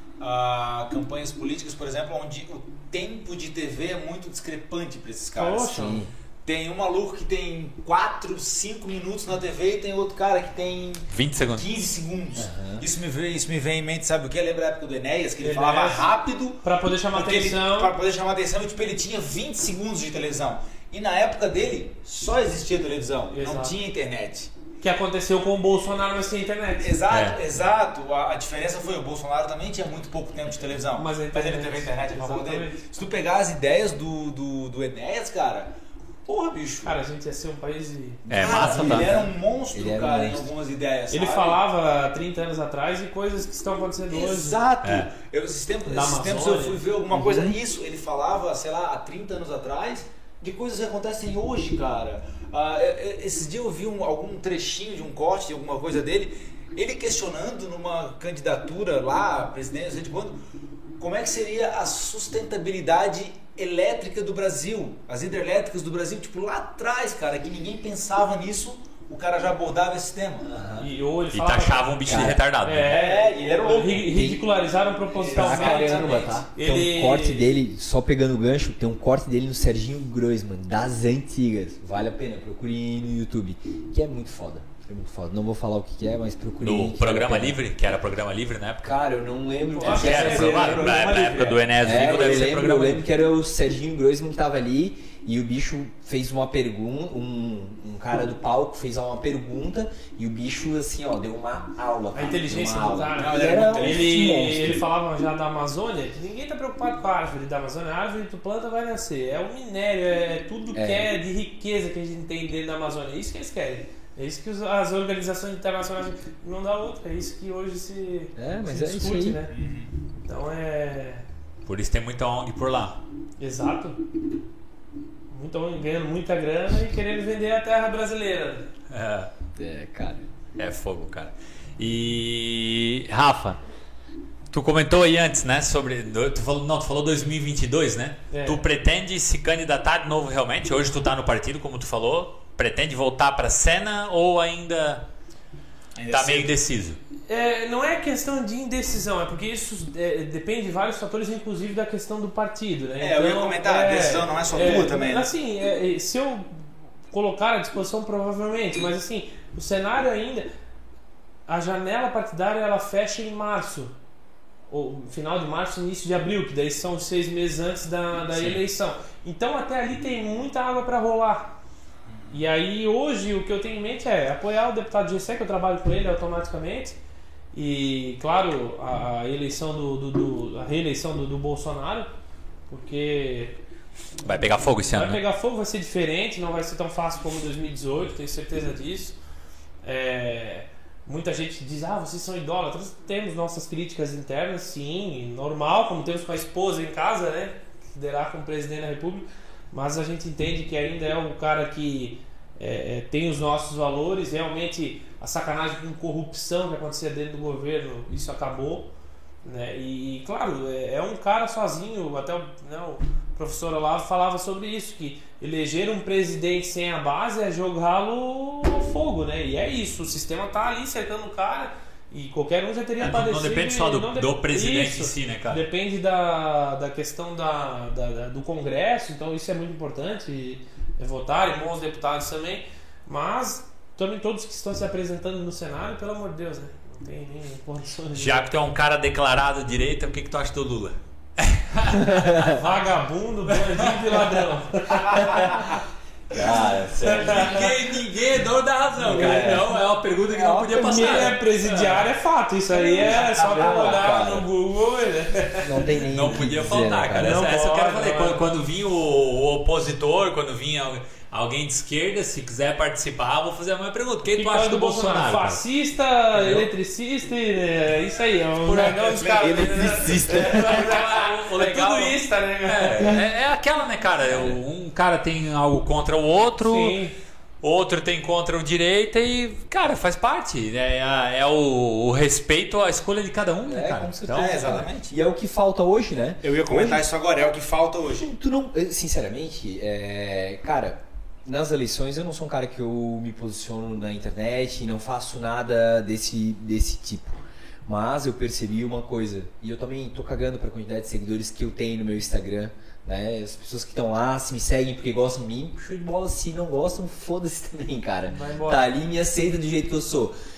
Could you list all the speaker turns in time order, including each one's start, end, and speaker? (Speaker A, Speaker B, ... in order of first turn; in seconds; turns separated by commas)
Speaker A: 0.2-24.5, Speaker B: 5.3-6.1, Speaker C: 5.8-6.1, Speaker D: 11.1-11.7, Speaker C: 12.4-12.8, Speaker B: 15.4-16.1, Speaker B: 16.6-17.9, Speaker B: 23.3-23.8, Speaker B: 24.8-27.0, Speaker A: 26.8-35.7, Speaker D: 27.1-27.4, Speaker B: 30.9-32.8, Speaker A: 36.3-37.0, Speaker B: 36.8-39.1, Speaker A: 38.3-41.6, Speaker D: 38.3-39.2, Speaker C: 38.6-40.5, Speaker B: 41.1-44.6, Speaker A: 44.1-60.4, Speaker D: 44.8-45.1, Speaker B: 45.9-46.8, Speaker C: 47.1-47.6, Speaker A: 61.0-70.5, Speaker C: 70.5-70.9, Speaker B: 70.8-77.5, Speaker D: 71.3-73.0, Speaker C: 72.1-72.4, Speaker A: 72.8-74.2, Speaker C: 74.1-74.4, Speaker A: 75.2-76.5, Speaker C: 75.2-87.6, Speaker D: 86.6-88.9, Speaker C: 88.8-104.8, Speaker B: 89.8-91.7, Speaker D: 89.9-93.1, Speaker A: 89.9-90.1, Speaker B: 102.1-119.5, Speaker A: 103.2-104.2, Speaker C: 110.7-111.1, Speaker C: 118.4-119.4, Speaker A: 119.5-120.0, Speaker B: 120.2-121.2, Speaker D: 121.7-123.0, Speaker B: 123.4-124.0, Speaker B: 125.3-128.7, Speaker D: 128.9-129.3, Speaker C: 129.6-130.3, Speaker D: 130.6-133.6, Speaker D: 134.5-145.1, Speaker B: 138.3-138.6, Speaker A: 145.9-146.5, Speaker D: 146.1-147.0, Speaker B: 147.3-160.5, Speaker A: 153.0-155.3, Speaker B: 161.5-163.9, Speaker B: 164.7-171.6, Speaker D: 168.3-168.6, Speaker B: 172.3-177.0, Speaker B: 177.5-182.1, Speaker B: 182.7-183.6, Speaker D: 184.2-185.2, Speaker B: 184.8-189.2, Speaker B: 189.8-208.9, Speaker B: 209.4-238.5, Speaker D: 223.0-225.6, Speaker D: 238.2-242.5, Speaker C: 242.1-242.3, Speaker B: 242.4-245.5, Speaker D: 243.5-244.2, Speaker C: 246.3-247.7, Speaker D: 246.4-252.0, Speaker B: 247.0-247.6, Speaker C: 249.0-249.8, Speaker C: 250.3-251.4, Speaker B: 250.9-255.9, Speaker C: 252.7-254.5, Speaker C: 255.6-257.4, Speaker D: 256.0-265.6, Speaker B: 257.1-258.5, Speaker B: 264.3-273.2, Speaker C: 266.3-266.7, Speaker D: 268.6-277.0, Speaker C: 268.7-270.9, Speaker C: 274.3-274.6, Speaker B: 276.6-277.1, Speaker D: 277.6-284.8, Speaker C: 283.7-287.1, Speaker A: 284.3-285.1, Speaker A: 286.4-288.3, Speaker C: 288.2-310.3, Speaker B: 308.3-309.0